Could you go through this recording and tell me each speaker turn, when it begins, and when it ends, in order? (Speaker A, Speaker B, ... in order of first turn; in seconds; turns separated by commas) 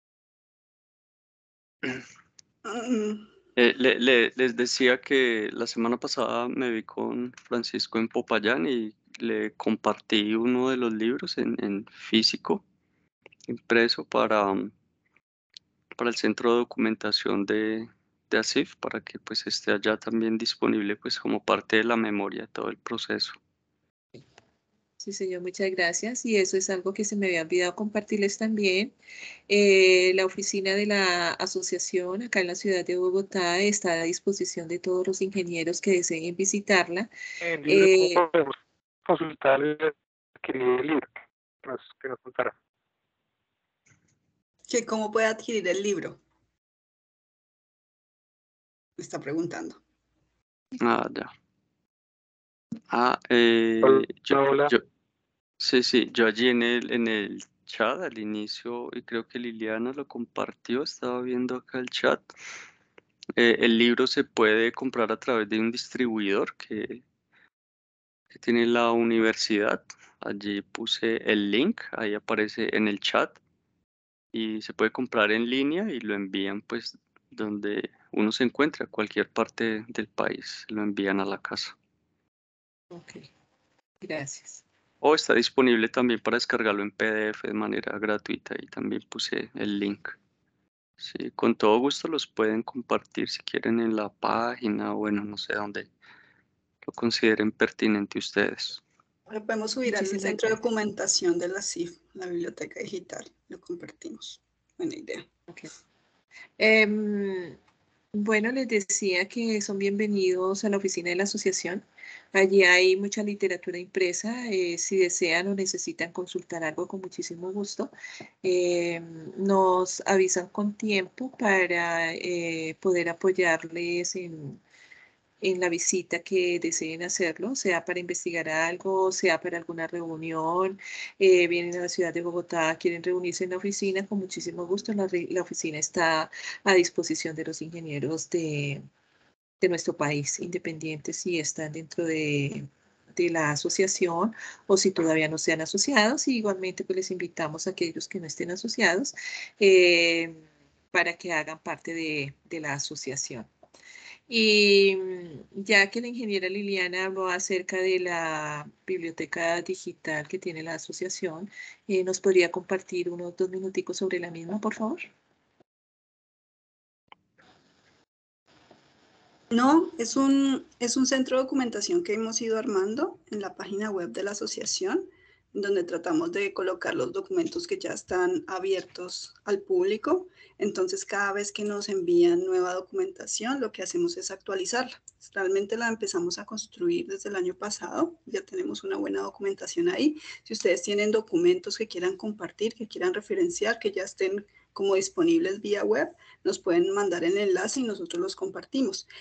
Speaker A: 2.6-3.3, Speaker B: 3.6-12.6, Speaker B: 13.5-14.7, Speaker B: 16.0-23.4, Speaker C: 25.0-28.9, Speaker C: 29.5-37.1, Speaker D: 37.4-38.5, Speaker C: 37.7-38.2, Speaker D: 39.1-41.1, Speaker D: 41.6-42.5, Speaker A: 44.7-46.2, Speaker A: 49.0-49.8, Speaker B: 50.8-51.3, Speaker B: 52.9-54.8, Speaker D: 53.8-54.7, Speaker B: 55.6-62.3, Speaker B: 63.4-67.0, Speaker B: 68.3-73.4, Speaker B: 74.3-81.8, Speaker C: 82.9-83.3, Speaker C: 84.0-84.6, Speaker B: 85.0-90.2, Speaker B: 91.0-95.9, Speaker B: 96.8-98.8, Speaker A: 99.3-105.3, Speaker C: 99.9-100.6, Speaker C: 106.6-107.6, Speaker C: 108.1-117.9, Speaker C: 118.4-124.6, Speaker C: 125.4-138.8, Speaker C: 139.6-150.4, Speaker C: 150.9-153.5, Speaker C: 154.3-165.1, Speaker A: 169.5-199.1